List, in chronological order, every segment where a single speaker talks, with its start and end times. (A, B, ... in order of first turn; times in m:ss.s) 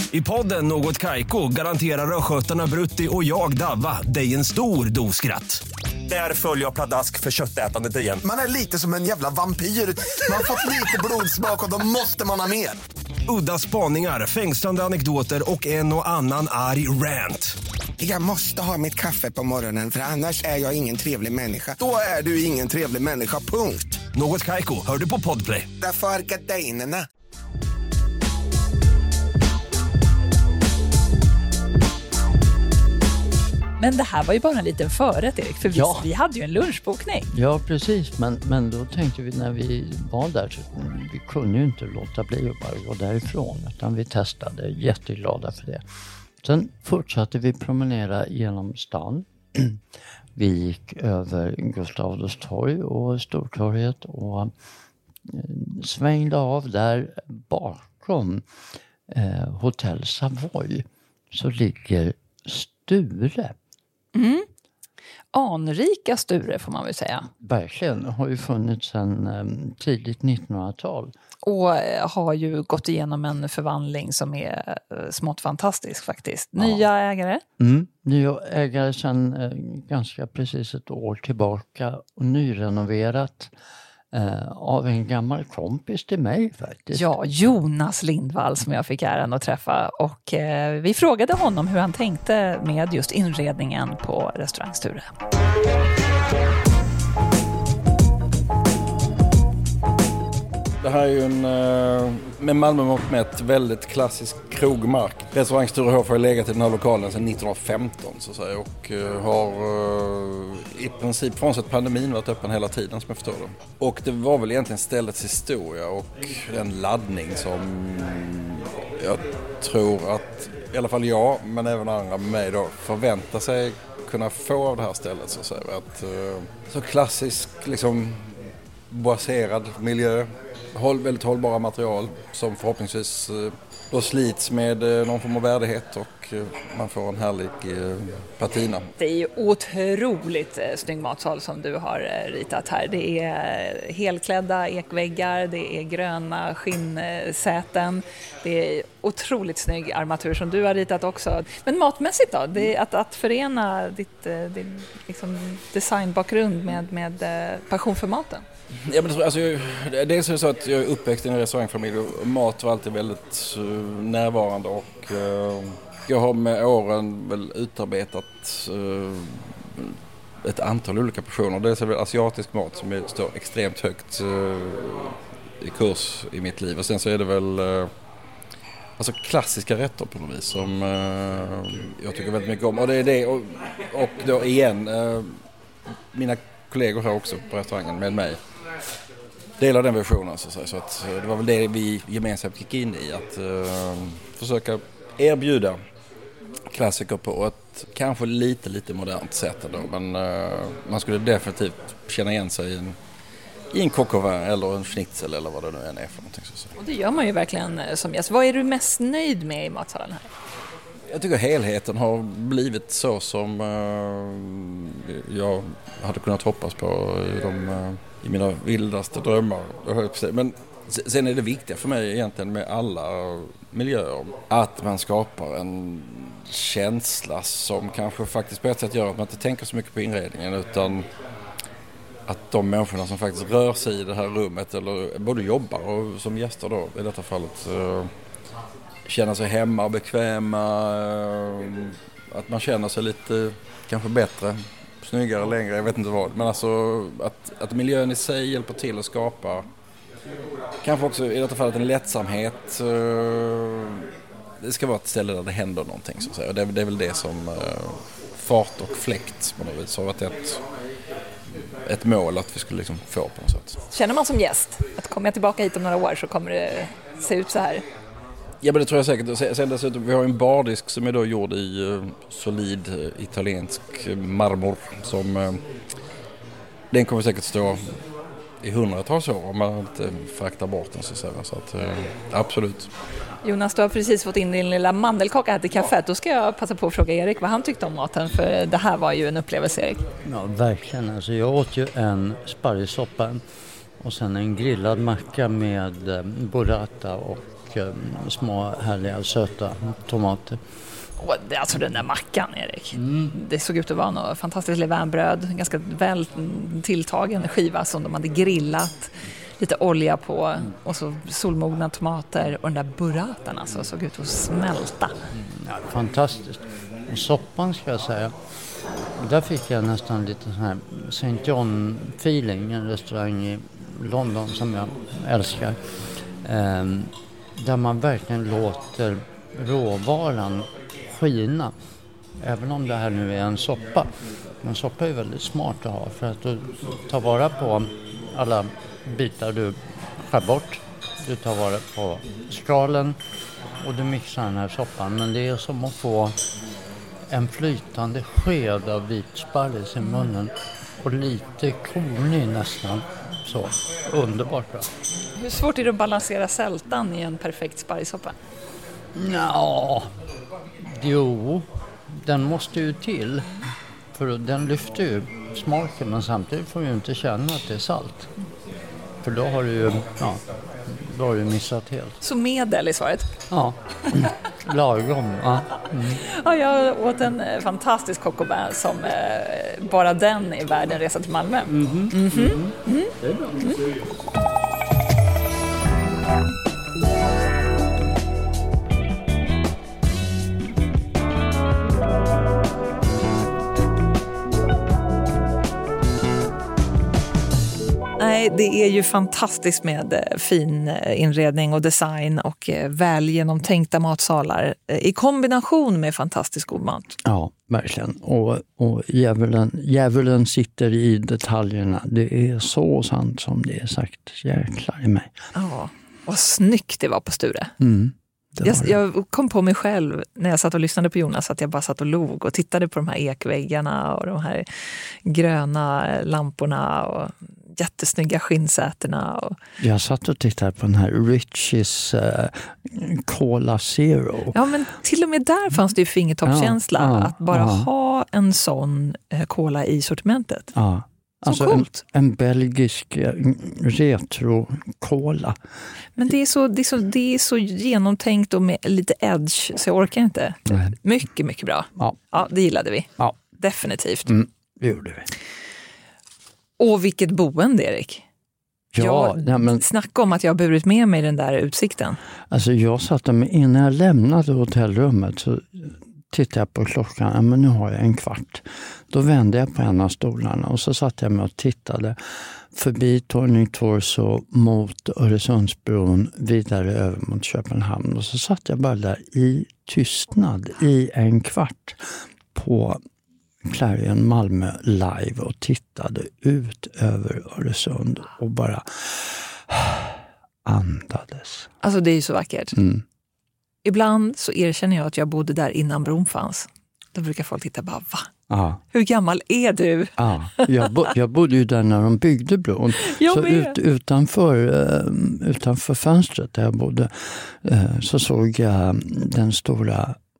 0:00.1-0:08.2 A
0:08.3-0:12.8 B
0:13.3-0:17.6 A
0:18.0-0:24.0 B
0:24.1-0:25.7 A
0:25.8-0:27.1 B
0:33.8-0:37.3 C
0:35.7-0:36.1 D
0:37.3-0:45.8 D
0:46.4-0:49.8 D
0:50.4-0:54.5 D
0:55.2-0:58.4 D
0:59.1-1:03.6 D
1:04.2-1:04.5 C
1:05.3-1:07.3 C
1:07.4-1:11.1 D
1:11.4-1:17.4 C
1:16.6-1:16.8 D
1:17.6-1:23.5 D
1:24.1-1:27.1 D
1:26.9-1:35.1 C
1:40.8-2:08.4 E
2:08.9-2:18.9 E
2:19.0-2:38.4 C
2:38.8-2:57.9 E
2:59.0-3:05.4 E
3:06.1-3:08.4 E
3:09.6-3:15.8 E
3:16.7-3:23.0 E
3:23.7-3:26.8 E
3:26.8-3:30.3 C
3:31.1-3:51.1 E
3:52.3-3:58.1 E
3:59.1-4:09.7 E
4:10.8-4:14.1 E
4:14.6-4:20.6 E
4:21.9-4:23.8 E
4:23.9-4:27.8 C
4:28.6-4:35.6 E
4:36.9-4:38.0 E
4:38.6-4:42.9 E
4:43.4-4:50.0 C
4:50.3-4:53.4 D
4:54.0-5:00.6 D
5:01.2-5:15.2 C
5:03.0-5:03.3 D
5:15.4-5:18.3 D
5:19.2-5:25.8 D
5:26.4-5:31.8 D
5:32.4-5:34.1 D
5:34.6-5:43.2 D
5:43.8-5:46.4 D
5:47.3-5:54.9 D
5:55.4-5:58.4 C
5:59.1-6:00.1 D
6:00.8-6:03.5 D
6:04.1-6:08.3 D
6:09.2-6:12.2 D
6:12.2-6:13.3 C
6:13.5-6:16.2 D
6:16.1-6:23.8 C
6:21.7-6:23.6 D
6:38.2-6:47.2 C
6:47.2-6:55.3 D
6:55.6-6:57.7 C
6:57.8-6:59.0 D
6:58.6-7:09.6 C
7:09.8-7:14.6 D
7:14.5-7:20.7 C
7:16.4-7:17.9 D
7:20.7-7:25.6 D
7:21.4-7:22.0 C
7:26.2-7:34.3 C
7:30.7-7:31.0 D
7:34.3-7:35.3 D
7:36.8-7:38.3 C
7:38.9-7:39.8 D
7:39.0-7:42.2 C
7:42.5-7:52.2 D
7:52.7-8:03.0 D
8:03.6-8:11.7 D
8:11.8-8:12.8 C
8:12.8-8:13.0 D
8:13.8-8:18.3 C
8:18.5-8:18.8 D
8:18.9-8:20.9 C
8:20.2-8:30.2 D
8:23.0-8:23.8 C